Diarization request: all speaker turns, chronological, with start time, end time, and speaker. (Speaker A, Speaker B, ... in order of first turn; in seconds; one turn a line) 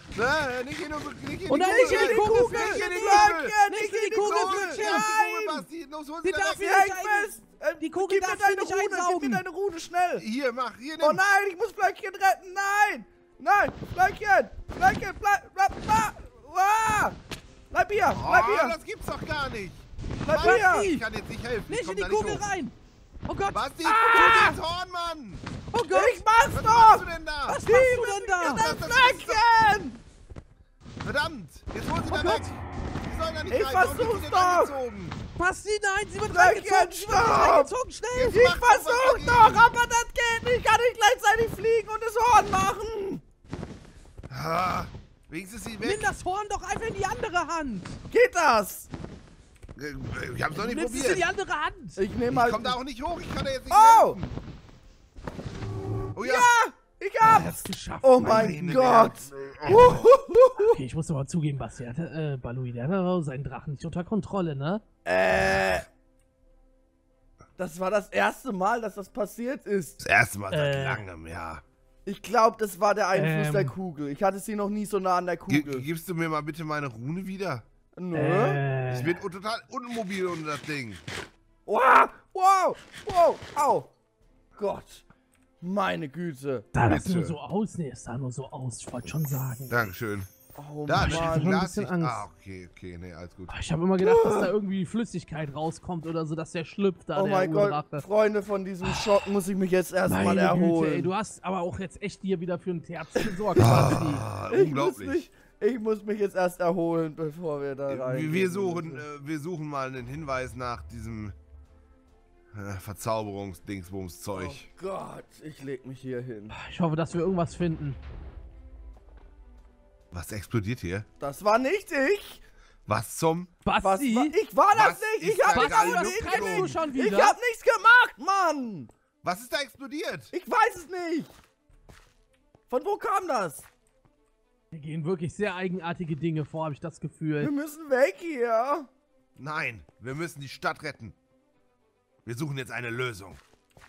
Speaker A: 0.1-3.6
Speaker B: 1.5-5.1
Speaker C: 1.5-5.7
Speaker A: 4.2-6.8
Speaker B: 6.2-9.4
Speaker C: 6.6-10.2
Speaker A: 10.2-11.2
Speaker C: 11.0-17.2
Speaker C: 17.7-18.8
Speaker A: 18.1-22.5
Speaker C: 20.2-20.9
Speaker B: 20.4-21.0
Speaker B: 21.7-22.8
Speaker B: 23.3-24.5
Speaker A: 23.5-25.4
Speaker C: 23.8-24.6
Speaker B: 25.7-26.2
Speaker C: 25.9-30.0
Speaker A: 26.5-27.6
Speaker B: 27.5-28.7
Speaker A: 28.4-29.4
Speaker A: 31.0-35.2
Speaker B: 32.1-32.5
Speaker C: 33.5-34.8
Speaker B: 35.4-38.4
Speaker C: 36.3-37.7
Speaker A: 38.1-39.7
Speaker C: 38.3-43.2
Speaker A: 44.3-46.1
Speaker B: 45.8-48.0
Speaker C: 48.1-48.9
Speaker A: 49.8-51.3
Speaker B: 50.5-52.0
Speaker C: 52.0-52.8
Speaker A: 52.3-54.3
Speaker C: 53.7-54.2
Speaker A: 56.1-56.5
Speaker C: 56.2-60.8
Speaker B: 57.2-58.6
Speaker A: 58.2-60.0
Speaker B: 60.6-64.8
Speaker C: 65.0-65.8
Speaker C: 67.6-70.0
Speaker A: 70.0-71.6
Speaker B: 70.5-71.0
Speaker C: 72.0-75.8
Speaker B: 73.1-73.7
Speaker A: 75.5-77.6
Speaker C: 78.0-78.6
Speaker B: 78.1-79.2
Speaker A: 78.9-81.0
Speaker C: 81.7-83.9
Speaker C: 84.6-85.0
Speaker C: 85.6-86.7
Speaker B: 86.7-89.9
Speaker A: 86.8-87.4
Speaker A: 89.7-90.3
Speaker C: 90.5-91.6
Speaker A: 90.8-93.5
Speaker B: 91.0-92.2
Speaker B: 93.5-98.0
Speaker C: 94.0-94.5
Speaker C: 97.1-101.1
Speaker B: 100.0-104.2
Speaker A: 103.6-105.3
Speaker C: 104.5-109.0
Speaker A: 107.9-111.3
Speaker A: 112.5-114.7
Speaker C: 114.3-116.5
Speaker B: 116.5-118.0
Speaker A: 120.1-121.0
Speaker C: 121.2-122.4
Speaker A: 122.9-123.5
Speaker B: 123.6-124.3
Speaker C: 123.8-128.9
Speaker A: 124.7-126.8
Speaker B: 125.5-127.4
Speaker A: 129.2-130.3
Speaker C: 130.3-131.3
Speaker C: 132.7-133.7
Speaker B: 134.7-137.5
Speaker C: 137.4-138.9
Speaker A: 139.4-141.2
Speaker A: 142.2-143.4